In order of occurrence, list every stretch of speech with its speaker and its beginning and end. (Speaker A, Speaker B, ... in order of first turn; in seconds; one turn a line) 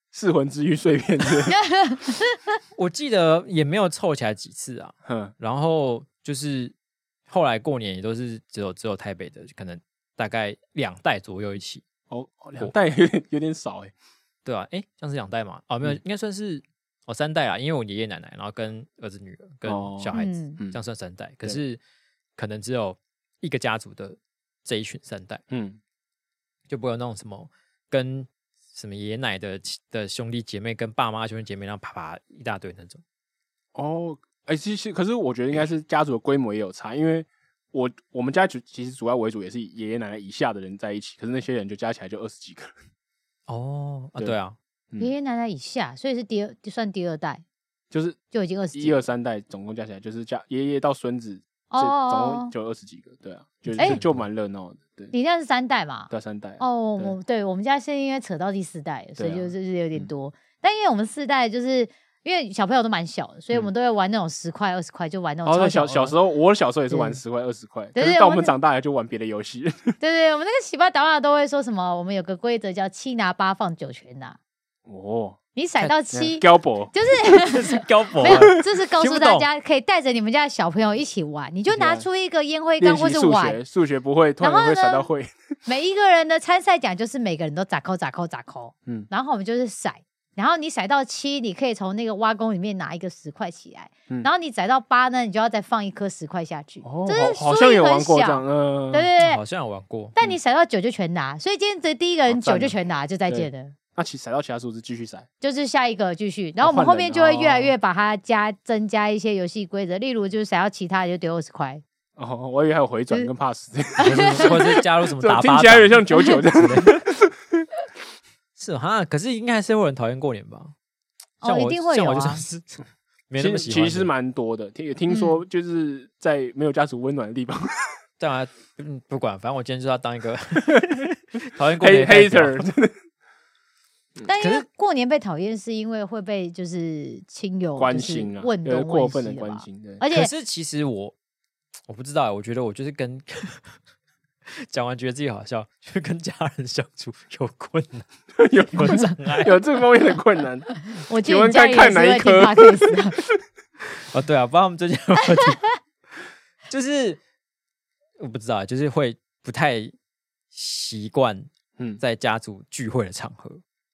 Speaker A: 0.1-1.5
Speaker B: 1.5-2.4
Speaker C: 2.8-6.7
Speaker A: 5.0-5.3
Speaker C: 7.3-11.8
Speaker A: 12.1-13.9
Speaker C: 14.4-21.8
Speaker A: 19.6-20.8
Speaker B: 20.1-20.6
Speaker C: 22.4-25.4
Speaker A: 25.5-25.8
Speaker C: 26.7-33.0
Speaker A: 33.7-42.7
Speaker C: 43.5-44.5
Speaker B: 45.0-47.4
Speaker A: 47.9-48.2
Speaker B: 48.3-49.0
Speaker A: 48.7-55.1
Speaker B: 51.7-52.5
Speaker C: 53.7-54.2
Speaker B: 55.1-66.1
Speaker A: 56.1-57.1
Speaker A: 59.2-60.1
Speaker A: 65.5-70.0
Speaker B: 66.9-67.2
Speaker B: 67.9-68.5
Speaker B: 70.0-74.4
Speaker A: 74.8-75.4
Speaker B: 75.5-83.6
Speaker A: 76.1-76.9
Speaker C: 77.4-79.5
Speaker A: 81.7-82.0
Speaker A: 82.8-85.3
Speaker B: 84.4-85.0
Speaker B: 85.6-99.4
Speaker A: 96.8-99.1
Speaker C: 99.2-100.2
Speaker B: 100.1-103.7
Speaker A: 102.3-102.7
Speaker A: 103.3-105.2
Speaker B: 105.4-111.8
Speaker A: 106.6-107.7
Speaker A: 112.2-117.3
Speaker C: 114.0-117.0
Speaker B: 114.1-114.5
Speaker C: 118.6-120.7
Speaker B: 121.4-122.4
Speaker C: 121.4-124.1
Speaker A: 123.3-127.9
Speaker C: 128.2-132.7
Speaker A: 131.8-132.9
Speaker B: 134.2-140.3
Speaker C: 134.4-134.6
Speaker A: 137.8-140.0
Speaker C: 140.1-141.1
Speaker C: 141.9-143.7
Speaker C: 144.7-148.1
Speaker A: 148.3-150.7
Speaker C: 148.7-149.6
Speaker B: 151.1-153.2
Speaker A: 151.2-153.2
Speaker C: 154.1-155.7
Speaker C: 156.7-157.2
Speaker C: 158.2-159.9
Speaker C: 160.5-161.5
Speaker C: 162.0-163.6